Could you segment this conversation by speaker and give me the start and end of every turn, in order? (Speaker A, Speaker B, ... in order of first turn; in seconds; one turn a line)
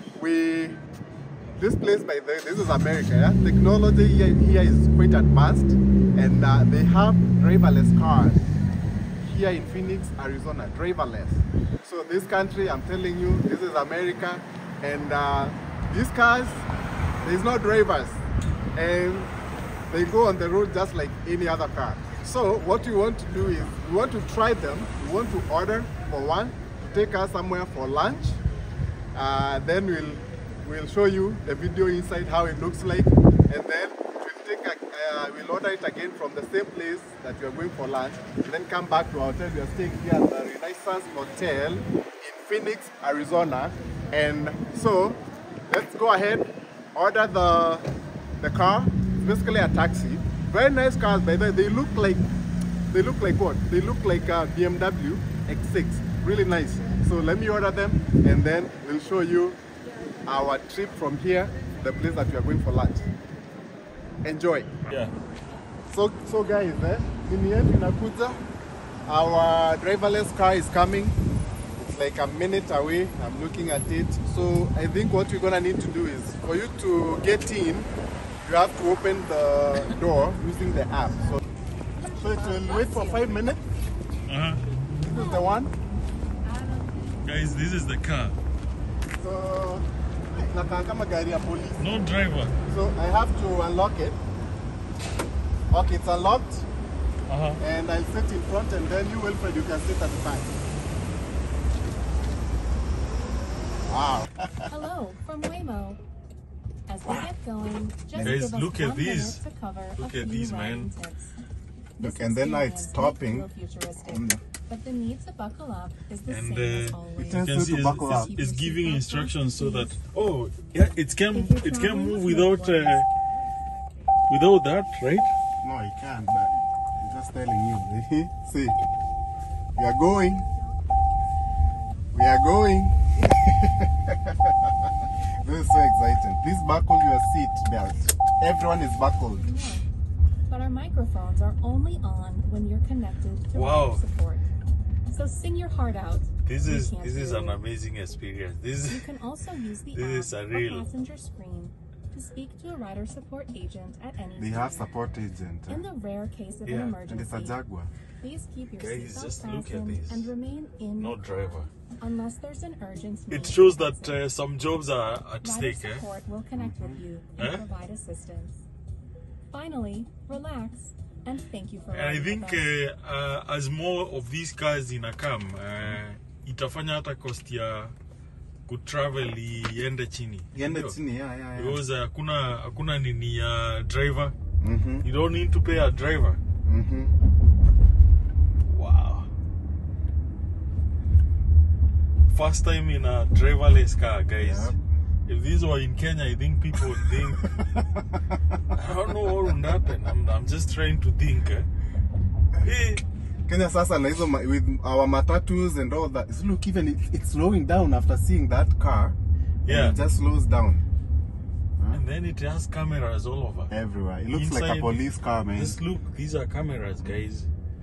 Speaker A: 0.1-0.8
Speaker A: 1.5-8.4
Speaker A: 9.2-16.6
Speaker A: 17.2-18.2
Speaker A: 18.7-19.3
Speaker A: 19.9-28.4
Speaker A: 29.1-52.3
Speaker A: 52.9-59.6
Speaker A: 60.2-63.1
Speaker A: 64.2-64.7
Speaker B: 64.9-65.1
Speaker A: 65.9-68.4
Speaker A: 69.1-71.2
Speaker A: 71.8-77.9
Speaker A: 78.4-81.4
Speaker C: 82.1-83.4
Speaker A: 82.1-83.6
Speaker B: 84.2-84.6
Speaker A: 85.0-85.7
Speaker C: 85.1-85.4
Speaker C: 86.5-86.9
Speaker B: 87.2-88.3
Speaker A: 89.2-92.0
Speaker B: 91.8-92.5
Speaker A: 92.7-94.2
Speaker A: 95.7-96.7
Speaker B: 97.3-97.6
Speaker A: 97.6-100.5
Speaker A: 103.8-104.7
Speaker C: 104.7-106.0
Speaker C: 106.9-111.3
Speaker A: 108.1-108.5
Speaker B: 108.2-109.4
Speaker B: 110.0-110.9
Speaker A: 112.0-113.5
Speaker C: 112.0-120.0
Speaker A: 114.0-114.4
Speaker B: 116.3-123.0
Speaker A: 117.2-118.3
Speaker C: 121.3-123.0
Speaker B: 124.3-125.3
Speaker A: 125.6-128.8
Speaker A: 129.8-130.5
Speaker A: 132.1-134.8
Speaker A: 135.4-139.5
Speaker C: 139.4-139.8
Speaker C: 140.5-144.5
Speaker B: 143.5-144.0
Speaker C: 145.1-147.6
Speaker B: 146.4-149.1
Speaker C: 148.9-154.9
Speaker B: 149.9-150.9
Speaker A: 154.3-155.8
Speaker C: 155.7-157.6
Speaker B: 156.7-157.0
Speaker A: 157.0-157.9
Speaker C: 158.2-161.3
Speaker B: 158.8-160.3
Speaker B: 161.0-161.7
Speaker C: 162.0-164.2
Speaker B: 163.3-166.0
Speaker C: 165.4-168.6
Speaker A: 166.6-167.0
Speaker B: 167.4-167.6
Speaker C: 169.5-172.6
Speaker B: 171.9-177.9
Speaker B: 178.7-180.9
Speaker A: 180.5-181.8
Speaker B: 181.5-184.3
Speaker A: 184.6-185.1
Speaker B: 185.0-186.4
Speaker A: 186.6-187.2
Speaker B: 188.7-189.3
Speaker B: 192.3-194.7
Speaker A: 194.4-194.8
Speaker B: 195.3-197.8
Speaker A: 198.1-198.6
Speaker B: 198.7-201.7
Speaker B: 202.6-203.0
Speaker A: 203.4-209.2
Speaker B: 209.6-210.0
Speaker A: 209.7-210.9
Speaker B: 211.9-213.7
Speaker A: 213.7-215.8
Speaker B: 214.3-217.5